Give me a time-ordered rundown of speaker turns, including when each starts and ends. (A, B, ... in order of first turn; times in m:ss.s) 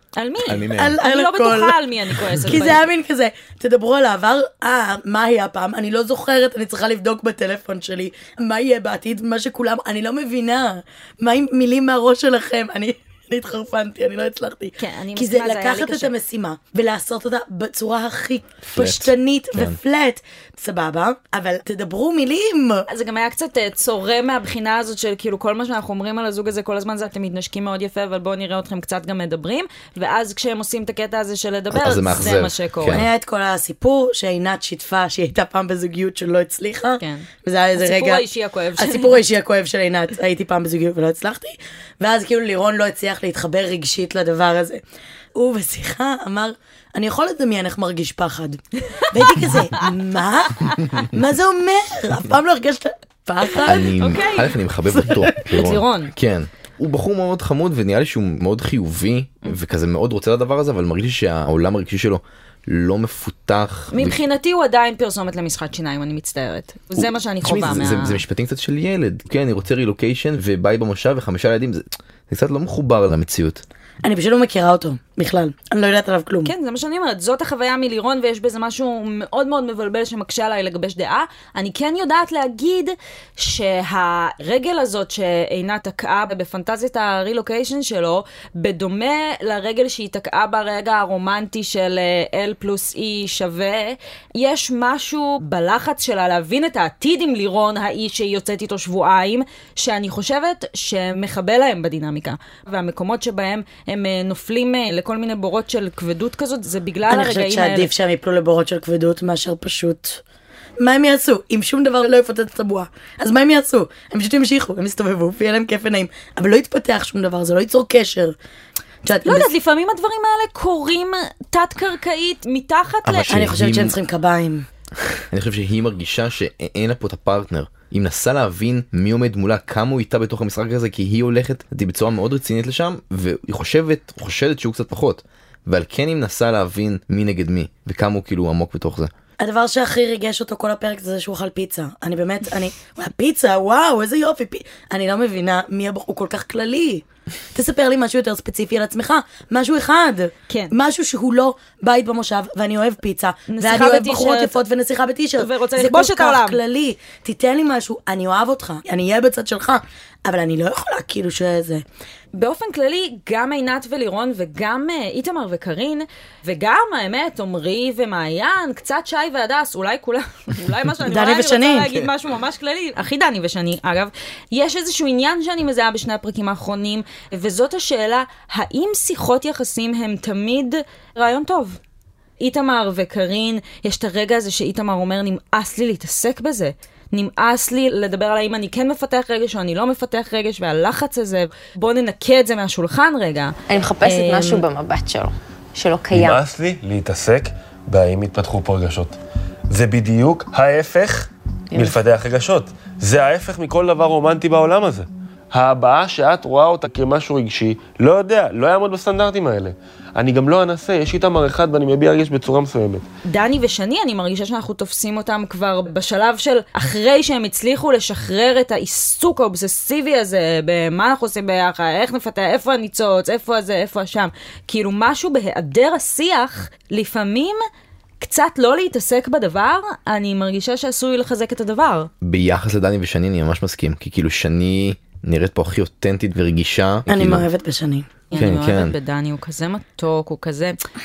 0:00.2-0:02.8 A
0:00.5-0:01.0 B
0:00.7-0:01.8 C
0:02.4-0:22.9 C
0:14.8-0:16.1 A
0:18.7-0:19.8 B
0:22.9-0:33.0 A
0:31.7-0:33.1 B
0:32.9-0:44.8 C
0:37.0-0:39.2 A
0:45.3-0:48.6 C
0:49.1-0:53.9 C
0:49.2-0:49.7 A
0:53.6-1:04.2 B
0:53.7-0:56.1 A
1:03.9-1:08.2 A
1:07.0-1:13.6 B
1:14.0-1:16.5 C
1:16.4-1:47.9 A
1:47.1-1:50.2 C
1:50.8-1:58.4 C
1:59.0-1:59.5 C
1:59.2-2:03.4 A
2:03.0-2:03.9 B
2:03.3-2:04.6 C
2:05.3-2:19.1 B
2:19.4-2:41.8 C
2:30.5-2:30.7 A
2:33.5-2:34.5 A
2:35.4-2:36.6 A
2:42.3-3:01.8 A
2:51.0-2:51.9 C
3:02.4-3:13.6 A
3:13.7-3:16.4 D
3:14.2-3:14.7 A
3:16.2-3:19.2 E
3:19.7-3:33.0 E
3:33.3-3:47.6 A
3:48.2-3:52.1 A
3:52.2-3:57.5 B
3:57.1-3:58.1 C
3:58.3-4:00.8 A
3:58.4-3:59.0 B